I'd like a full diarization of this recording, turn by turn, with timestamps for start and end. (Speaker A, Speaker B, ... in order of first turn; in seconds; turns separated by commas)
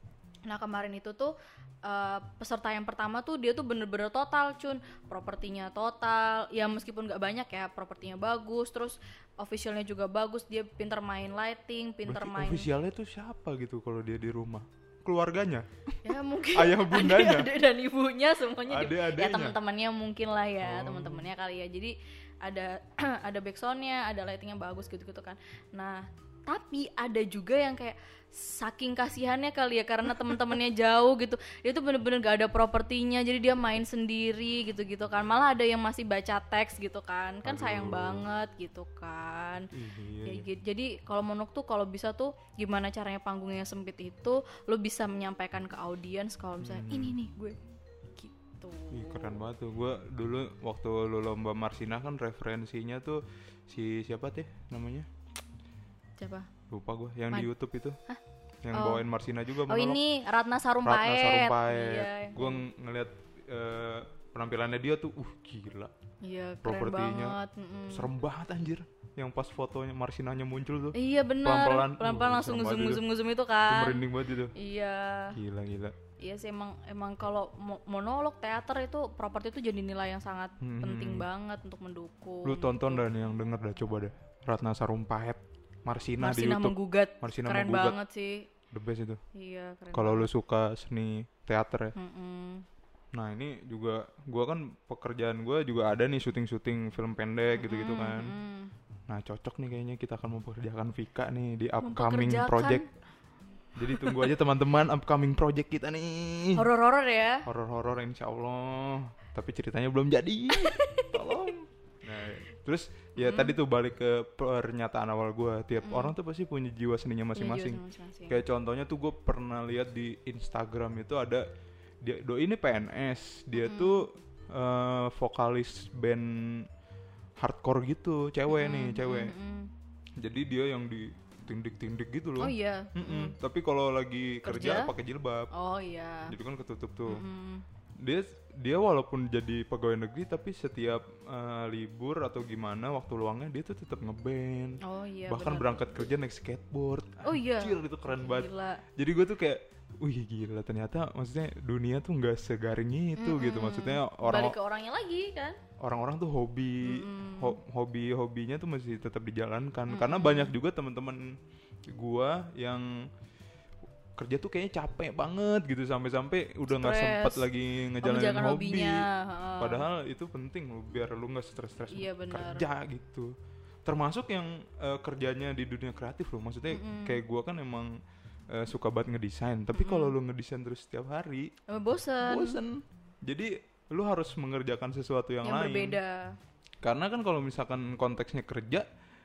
Speaker A: 0.5-12.7, Speaker B: 12.1-17.5, Speaker A: 16.0-39.7, Speaker B: 18.7-19.6, Speaker B: 20.6-21.3, Speaker B: 37.4-38.3, Speaker B: 39.7-40.5, Speaker A: 40.2-47.6, Speaker B: 46.6-47.1, Speaker A: 48.1-49.4, Speaker B: 48.9-55.1, Speaker A: 56.2-56.5, Speaker B: 56.7-58.0, Speaker B: 58.6-60.0, Speaker A: 58.7-59.0, Speaker A: 59.7-62.6, Speaker B: 60.8-65.9, Speaker A: 66.2-68.1, Speaker B: 66.6-67.4, Speaker B: 67.9-73.0, Speaker A: 70.9-75.4, Speaker B: 73.7-74.5, Speaker B: 75.3-76.0, Speaker A: 76.2-83.0, Speaker B: 80.6-81.2, Speaker B: 82.4-88.0, Speaker A: 86.2-88.5, Speaker B: 88.7-89.2, Speaker A: 89.3-90.3, Speaker B: 89.9-91.9, Speaker A: 91.9-92.6, Speaker B: 93.1-98.3, Speaker A: 97.6-98.7, Speaker B: 99.1-102.8, Speaker A: 101.8-102.8, Speaker B: 103.8-106.6, Speaker A: 103.9-104.2, Speaker A: 106.5-107.5, Speaker B: 107.5-121.5, Speaker A: 110.5-111.5, Speaker A: 113.2-113.5, Speaker A: 115.8-116.1, Speaker A: 117.3-118.4, Speaker B: 122.0-126.7, Speaker A: 123.5-124.0, Speaker B: 127.4-129.3, Speaker A: 128.5-129.7, Speaker B: 130.2-135.5, Speaker A: 132.4-133.3, Speaker A: 134.4-134.9, Speaker A: 135.5-136.3, Speaker B: 136.3-137.2, Speaker A: 137.1-137.6, Speaker B: 138.0-154.5, Speaker A: 144.8-146.1, Speaker A: 147.2-148.8, Speaker A: 153.2-155.6, Speaker B: 155.8-161.3, Speaker A: 156.8-157.6, Speaker A: 159.9-160.5, Speaker B: 161.9-162.9, Speaker B: 164.2-169.0, Speaker A: 166.7-167.5, Speaker A: 168.0-169.8, Speaker B: 169.6-173.3, Speaker A: 171.9-172.6, Speaker B: 173.8-177.9, Speaker A: 176.7-177.2, Speaker B: 178.5-181.5, Speaker A: 179.7-180.1, Speaker A: 181.7-182.6, Speaker B: 182.2-186.0, Speaker A: 185.4-186.3, Speaker B: 186.8-188.8